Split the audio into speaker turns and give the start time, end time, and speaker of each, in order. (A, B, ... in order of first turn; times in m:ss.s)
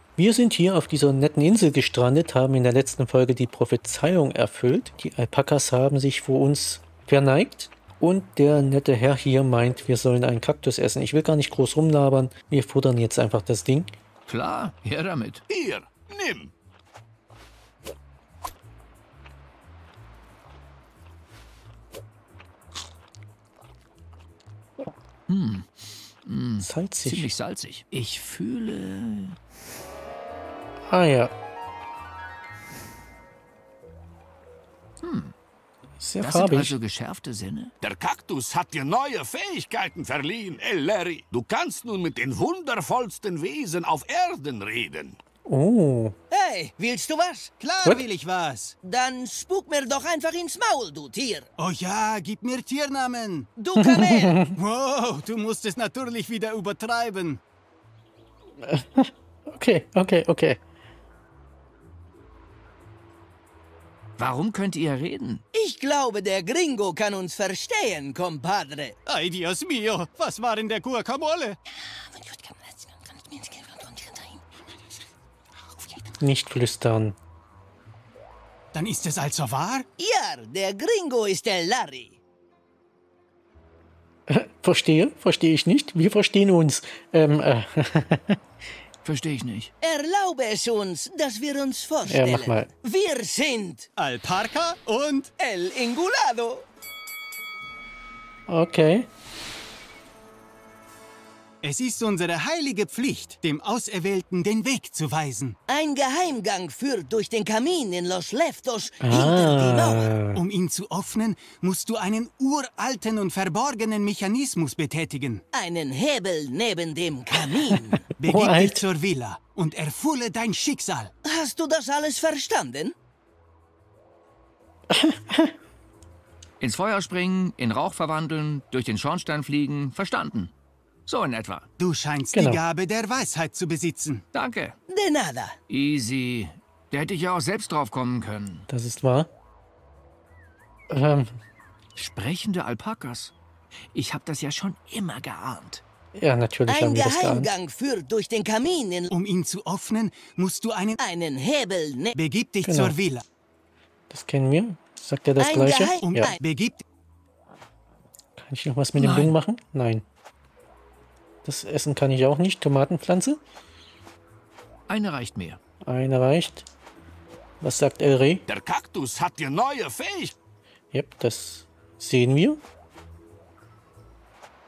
0:00.2-0:13.9 A
0:14.3-0:15.4 B
0:15.5-0:16.5 C
0:25.3-0:29.4 B
0:26.6-0:27.3 A
0:30.9-0:31.3 A
0:35.0-0:35.3 B
0:36.0-0:36.8 A
0:36.2-0:37.7 B
0:37.8-0:45.2 C
0:45.4-0:46.1 A
0:46.3-0:47.5 D
0:47.6-0:48.7 E
0:48.8-0:51.5 D
0:51.6-0:53.5 E
0:53.6-0:54.4 D
0:53.8-0:54.5 A
0:54.5-0:57.4 E
0:58.6-1:00.6 A
1:04.2-1:05.4 B
1:05.5-1:09.0 D
1:09.0-1:11.6 E
1:11.8-1:14.4 D
1:16.2-1:17.2 A
1:18.7-1:19.8 E
1:20.0-1:22.2 D
1:24.3-1:28.4 A
1:29.0-1:29.7 B
1:29.8-1:33.9 D
1:32.0-1:32.7 A
1:34.0-1:35.3 E
1:35.4-1:36.6 D
1:38.5-1:39.1 A
1:41.6-1:45.6 E
1:45.7-1:50.2 D
1:49.0-1:50.4 A
1:50.3-1:55.4 E
1:55.5-1:58.1 D
1:58.2-2:01.1 E
1:58.2-1:58.8 A
2:01.2-2:02.9 D
2:04.9-2:05.5 A
2:06.6-2:10.5 B
2:11.0-2:11.7 B
2:11.8-2:14.2 E
2:12.3-2:12.6 A
2:14.3-2:14.8 B
2:14.9-2:15.6 D
2:15.7-2:18.7 B
2:18.7-2:19.3 A
2:20.9-2:21.4 A
2:21.9-2:23.3 B
2:23.9-2:25.8 B
2:26.2-2:27.5 A
2:26.7-2:29.1 D
2:29.1-2:31.0 E
2:31.0-2:32.1 D
2:32.1-2:33.2 E
2:32.6-2:32.9 A
2:34.1-2:36.3 A
2:35.4-2:36.4 D
2:36.0-2:36.8 E
2:38.4-2:40.0 A
2:39.0-2:39.4 B
2:41.4-2:43.4 A
2:44.9-2:45.6 B
2:45.8-2:46.7 A
2:47.6-2:48.4 A
2:48.5-2:50.4 C
2:50.9-2:52.6 A